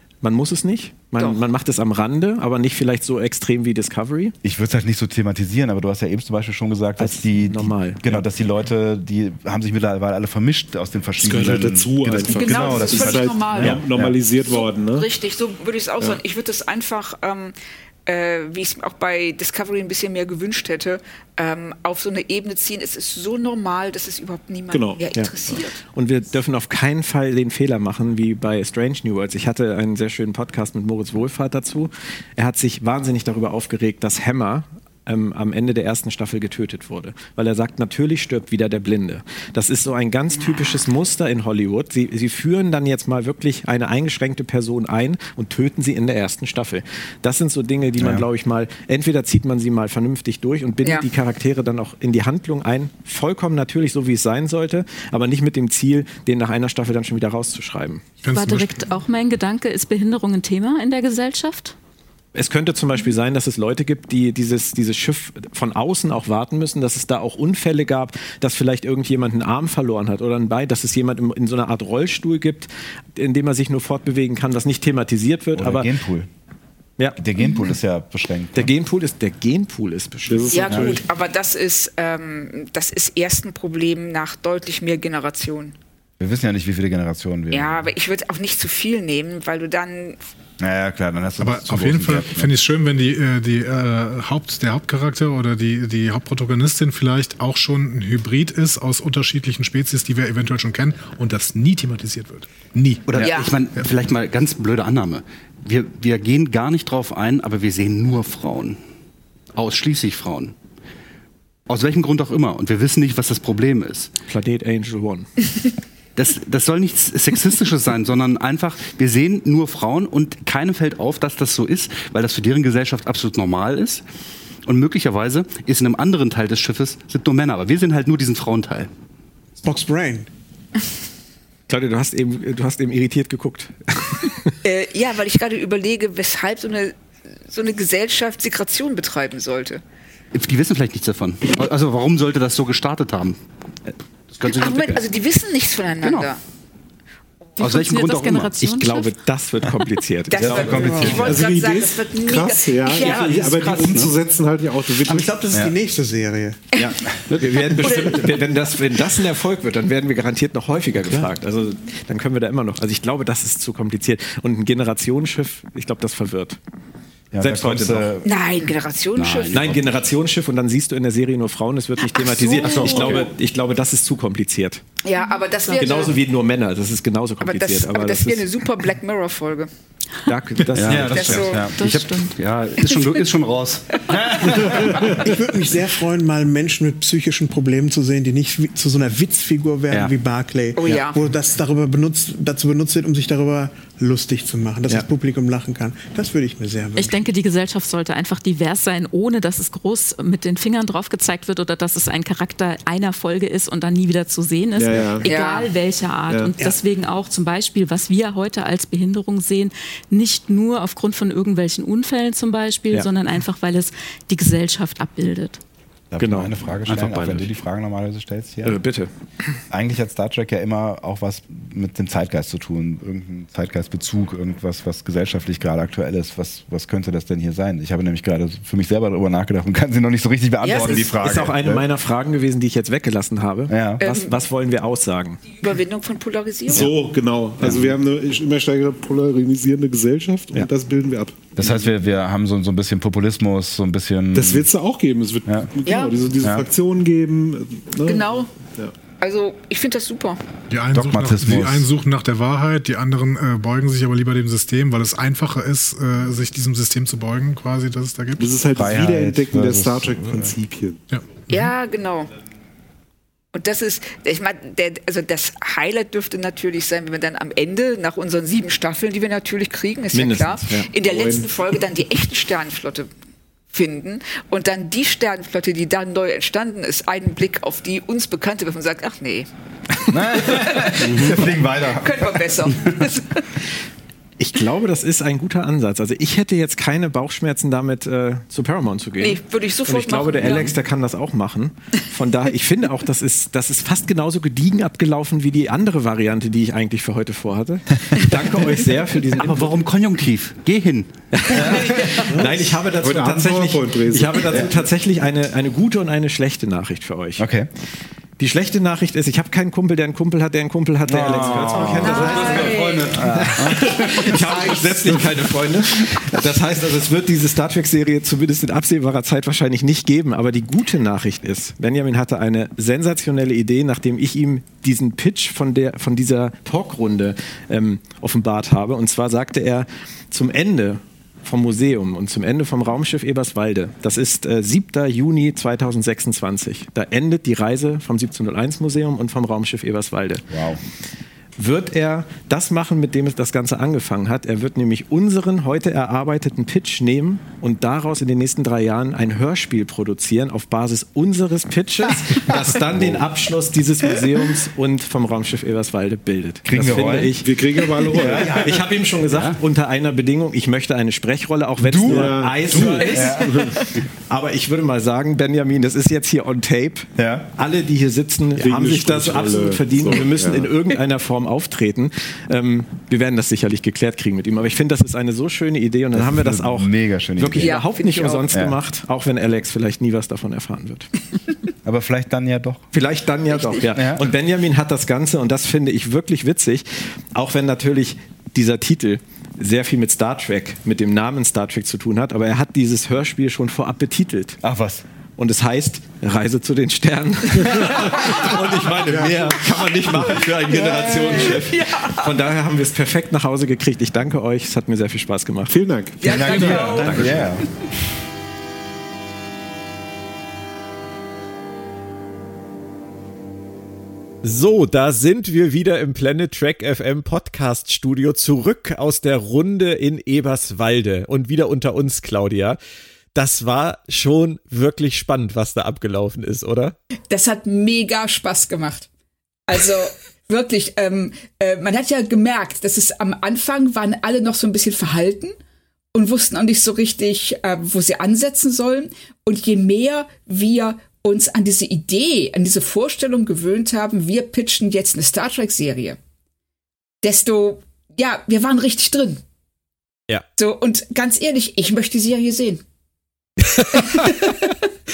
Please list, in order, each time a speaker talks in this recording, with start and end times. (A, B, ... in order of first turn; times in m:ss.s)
0:00.2-0:04.4 A
0:01.2-0:01.4 B
0:04.4-0:14.2 C
0:07.0-0:08.2 A
0:11.3-0:15.1 D
0:12.3-0:17.6 B
0:18.1-0:25.8 B
0:24.7-0:25.1 D
0:25.9-0:58.1 A
0:40.4-0:40.8 B
0:48.0-0:48.3 C
0:58.2-0:58.8 E
0:58.3-1:01.8 F
1:02.4-1:15.9 A
1:15.5-1:16.3 C
1:17.2-1:18.7 C
1:18.6-1:21.0 A
1:20.3-1:21.0 D
1:20.5-1:25.8 B
1:26.2-1:27.9 C
1:27.5-1:30.2 B
1:30.6-1:32.6 C
1:31.4-1:43.2 E
1:43.1-1:48.8 G
1:43.2-1:43.6 B
1:49.6-1:50.6 G
1:51.7-1:54.1 G
1:54.3-1:55.3 A
1:56.2-2:04.0 G
2:04.6-2:08.9 G
2:09.6-2:10.3 H
2:11.7-2:14.6 A
2:14.6-2:17.0 B
2:17.5-2:19.8 B
2:20.3-2:23.4 G
2:24.3-2:25.1 G
2:24.5-2:26.4 B
2:26.0-2:26.3 G
2:27.6-2:28.6 G
2:27.6-2:29.2 F
2:28.6-2:30.9 A
2:30.3-2:34.1 B
2:30.4-2:31.4 H
2:30.4-2:31.3 C
2:31.1-2:35.4 D
2:33.7-2:34.1 G
2:35.0-2:36.7 H
2:36.8-2:37.5 C
2:37.4-2:46.6 A
2:37.8-2:38.2 B
2:41.0-2:41.3 H
2:47.3-2:48.3 C
2:47.4-2:48.1 A
2:48.2-2:49.9 B
2:49.2-2:49.9 G
2:49.5-2:54.8 A
2:52.0-2:53.3 B
2:52.8-2:53.2 G
2:55.0-2:56.2 B
2:55.7-2:56.0 F
2:55.8-2:58.4 A
2:57.4-2:59.7 B
3:00.3-3:01.5 A
3:00.7-3:04.9 G
3:00.8-3:01.8 C
3:01.0-3:01.7 B
3:01.6-3:02.4 F
3:03.9-3:05.1 B
3:04.1-3:04.9 C
3:04.8-3:05.0 D
3:05.1-3:17.2 H
3:10.8-3:11.2 B
3:17.0-3:35.6 F
3:24.8-3:25.3 D
3:25.2-3:25.7 B
3:26.3-3:26.5 D
3:36.1-3:38.8 C
3:36.2-3:36.6 A
3:36.8-3:37.5 G
3:38.6-3:39.1 A
3:39.7-3:51.9 C
3:50.6-3:51.1 B
3:50.7-3:55.4 A
3:53.7-3:54.0 C
3:54.0-3:54.4 B
3:55.6-3:56.9 B
3:56.7-4:01.7 D
3:57.6-3:58.0 C
4:01.6-4:04.7 C
4:04.3-4:08.9 D
4:05.8-4:06.2 B
4:06.4-4:06.7 C
4:08.1-4:08.5 B
4:09.2-4:10.4 B
4:10.7-4:18.5 E
4:10.9-4:11.9 C
4:18.4-4:21.0 D
4:18.7-4:20.6 C
4:21.5-4:22.3 B
4:23.5-4:33.1 B
4:30.1-4:30.9 A
4:31.1-4:31.4 D
4:33.7-4:39.5 B
4:40.1-4:43.5 B
4:40.1-4:42.8 C
4:41.1-4:41.3 G
4:44.4-4:59.7 A
4:49.2-4:50.7 B
4:59.3-5:01.2 G
5:01.3-5:07.4 A
5:01.5-5:02.0 C
5:01.8-5:02.2 B
5:03.0-5:04.7 D
5:07.4-5:07.7 C
5:08.4-5:40.5 A
5:11.0-5:15.4 C
5:11.7-5:13.2 B
5:13.8-5:14.8 B
5:40.5-5:40.8 C
5:41.6-5:57.5 A
5:52.5-5:53.2 C
5:56.6-5:57.4 C
5:56.9-5:58.8 D
5:58.1-6:21.1 A
5:58.1-5:58.8 C
6:01.8-6:03.9 C
6:02.0-6:03.8 D
6:07.2-6:07.5 C
6:08.6-6:10.7 D
6:16.1-6:17.8 C
6:17.6-6:18.5 B
6:18.5-6:18.8 C
6:21.8-6:22.9 C
6:22.9-6:34.6 A
6:23.5-6:23.9 B
6:23.9-6:24.3 C
6:34.6-6:35.0 C
6:35.4-6:45.8 A
6:38.1-6:38.5 B
6:39.1-6:39.4 D
6:40.2-6:42.3 B
6:45.7-6:47.0 D
6:46.2-6:47.7 B
6:46.2-6:48.0 C
6:46.6-6:47.4 A
6:54.4-7:02.8 A
7:03.4-7:07.0 A
7:07.3-7:09.1 B
7:09.7-7:15.6 B
7:16.1-7:26.2 B
7:27.2-7:29.4 B
7:30.6-7:32.8 B
7:33.6-7:34.4 A
7:33.9-7:34.6 B